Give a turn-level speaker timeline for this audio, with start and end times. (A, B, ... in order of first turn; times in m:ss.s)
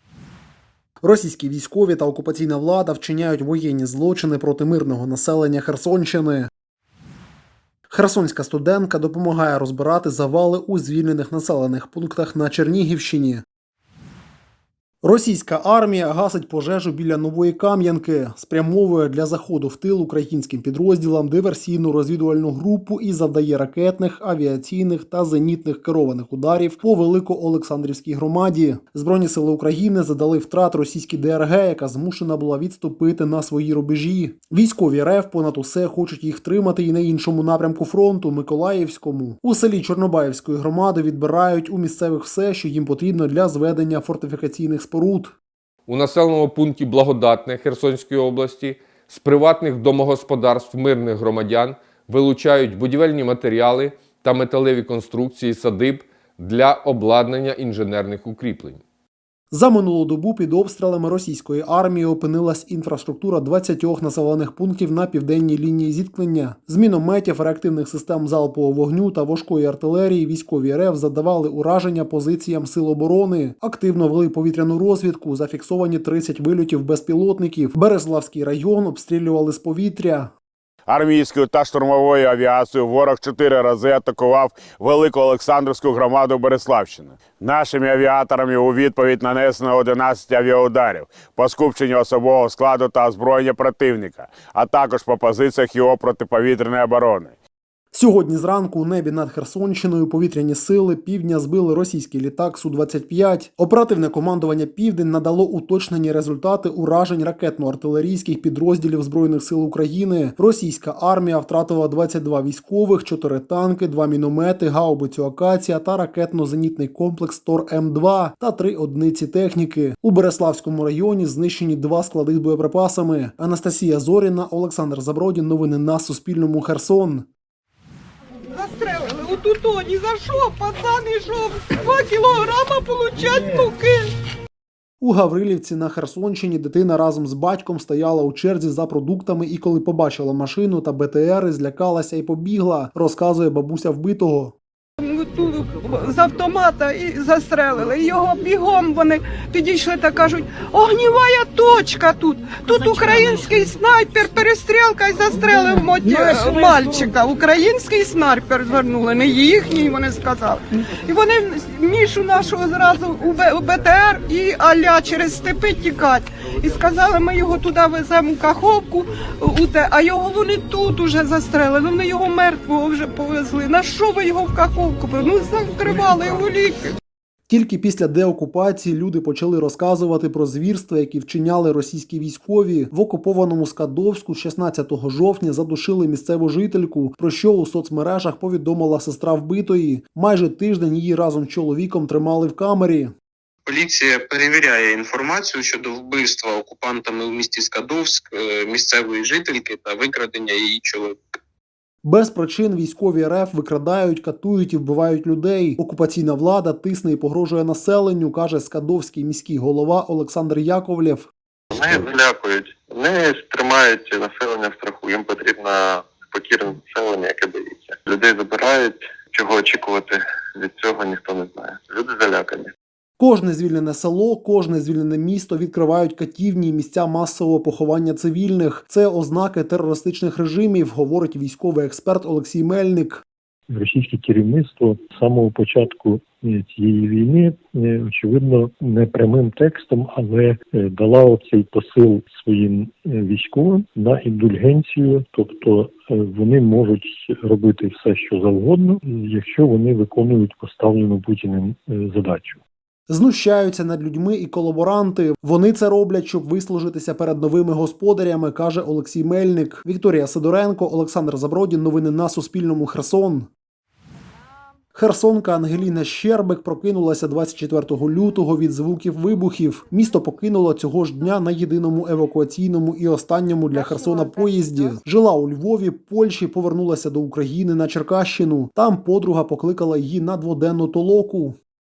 0:01.0-0:06.5 A
0:07.9-0:13.4 A
0:15.0-0:45.4 A
0:45.9-0:58.8 B
0:59.5-1:20.3 A
1:20.9-1:37.3 C
1:37.9-2:07.3 A
2:08.5-2:14.1 D
2:15.0-2:24.6 A
2:25.0-2:56.9 D
2:57.5-3:13.1 A
3:13.7-3:21.2 E
3:22.0-3:31.3 A
3:31.7-3:42.7 F
3:43.2-3:53.2 A
3:53.7-4:12.6 G
4:13.1-4:23.5 A
4:25.0-4:41.6 A